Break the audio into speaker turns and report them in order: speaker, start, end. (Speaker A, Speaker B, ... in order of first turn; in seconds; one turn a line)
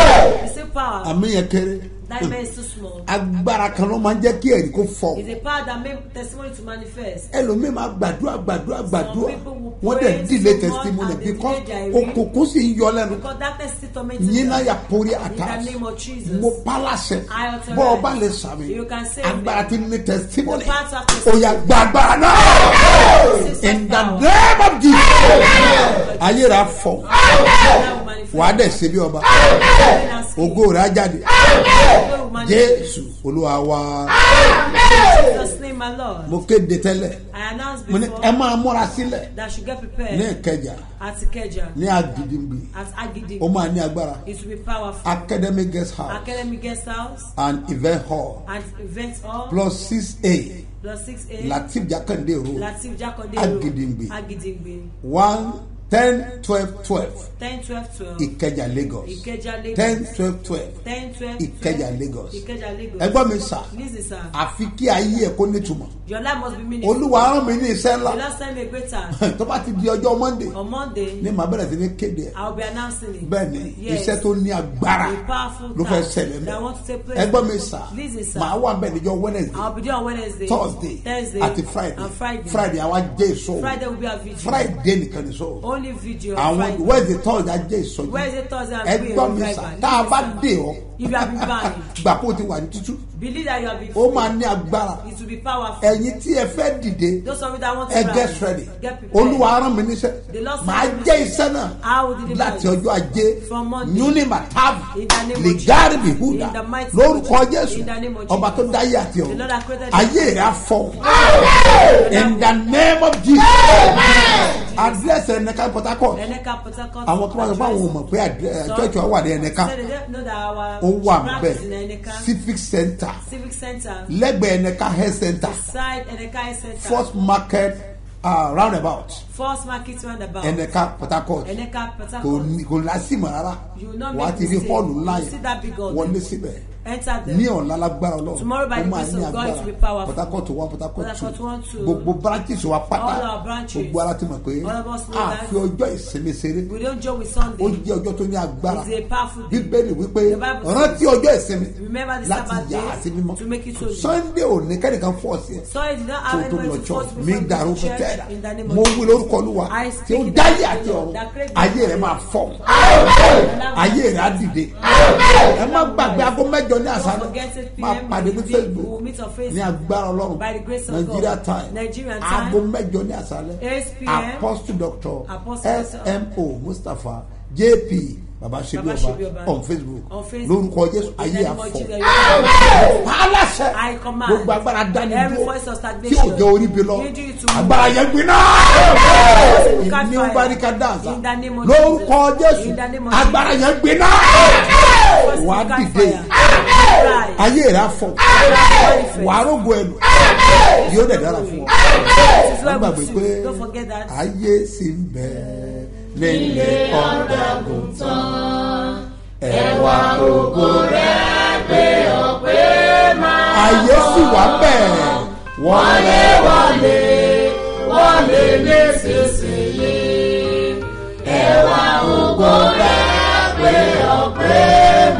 Speaker A: 0.3-1.2
Speaker B: 1.0-2.4
Speaker A: 2.0-3.1
Speaker B: 3.0-5.3
Speaker A: 5.1-7.3
Speaker B: 7.3-13.2
Speaker A: 8.9-12.2
Speaker A: 13.1-14.7
Speaker B: 14.2-27.1
Speaker A: 15.3-16.6
Speaker A: 17.3-19.8
Speaker A: 20.4-24.3
Speaker A: 25.6-28.8
Speaker B: 28.3-29.3
Speaker A: 29.6-30.6
Speaker B: 30.4-31.2
Speaker A: 31.7-33.0
Speaker B: 32.4-34.2
Speaker A: 34.9-36.4
Speaker B: 36.2-37.2
Speaker A: 37.3-38.3
Speaker B: 37.9-39.3
Speaker A: 39.3-40.3
Speaker B: 40.1-40.8
Speaker A: 41.0-41.8
Speaker B: 41.7-42.7
Speaker A: 42.7-43.5
Speaker B: 43.4-44.2
Speaker A: 44.2-45.3
Speaker B: 45.0-46.5
Speaker A: 46.1-47.3
Speaker B: 47.4-48.4
Speaker A: 48.5-49.6
Speaker B: 49.5-50.6
Speaker A: 50.8-51.6
Speaker B: 51.4-52.7
Speaker A: 52.5-54.9
Speaker B: 53.3-54.1
Speaker B: 55.0-57.3
Speaker A: 57.4-58.3
Speaker B: 58.2-60.8
Speaker A: 59.0-60.1
Speaker A: 60.8-64.3
Speaker B: 61.4-62.4
Speaker B: 63.0-63.7
Speaker B: 64.3-65.9
Speaker A: 66.0-67.4
Speaker B: 66.8-68.2
Speaker A: 68.0-69.2
Speaker B: 69.1-70.5
Speaker A: 70.5-71.3
Speaker B: 71.2-72.3
Speaker A: 72.3-74.2
Speaker B: 73.2-75.2
Speaker A: 75.0-78.5
Speaker B: 75.7-76.6
Speaker B: 77.1-79.7
Speaker A: 79.5-82.7
Speaker B: 80.5-83.8
Speaker A: 83.6-84.7
Speaker B: 84.4-85.6
Speaker A: 85.6-87.2
Speaker B: 86.3-88.3
Speaker A: 88.1-90.4
Speaker B: 88.8-93.0
Speaker A: 91.0-91.9
Speaker A: 93.1-94.3
Speaker B: 93.9-95.0
Speaker A: 95.0-96.0
Speaker B: 95.8-97.2
Speaker A: 97.2-99.5
Speaker B: 97.9-116.2
Speaker A: 100.3-102.8
Speaker A: 103.4-104.2
Speaker A: 104.9-110.5
Speaker A: 111.3-112.5
Speaker A: 114.0-115.3
Speaker A: 116.1-118.0
Speaker B: 117.0-119.7
Speaker A: 118.6-122.3
Speaker B: 120.8-123.2
Speaker A: 123.2-124.1
Speaker B: 124.1-125.6
Speaker A: 125.4-127.1
Speaker B: 126.8-129.2
Speaker A: 129.3-130.6
Speaker B: 130.4-131.6
Speaker A: 131.4-132.5
Speaker B: 132.2-135.3
Speaker A: 133.7-136.2
Speaker B: 135.9-136.6
Speaker A: 136.8-137.4
Speaker B: 137.2-146.7
Speaker A: 138.3-140.4
Speaker A: 141.0-142.1
Speaker A: 142.9-144.0
Speaker A: 144.6-145.5
Speaker A: 146.6-147.8
Speaker B: 147.4-148.9
Speaker A: 148.6-151.1
Speaker B: 149.5-155.7
Speaker A: 151.7-154.2
Speaker A: 155.7-166.4
Speaker B: 156.3-168.9
Speaker A: 166.9-169.8
Speaker B: 169.5-185.5
Speaker A: 170.3-172.6
Speaker A: 173.6-174.4
Speaker A: 175.3-176.2
Speaker A: 178.7-179.6
Speaker A: 180.1-182.8
Speaker A: 183.7-188.1
Speaker B: 186.1-196.3
Speaker A: 189.0-193.7
Speaker A: 195.1-197.5
Speaker B: 197.3-200.2
Speaker A: 198.3-199.5
Speaker A: 200.7-204.1
Speaker B: 200.8-208.4
Speaker B: 209.4-211.2
Speaker B: 213.5-217.4
Speaker B: 221.2-223.3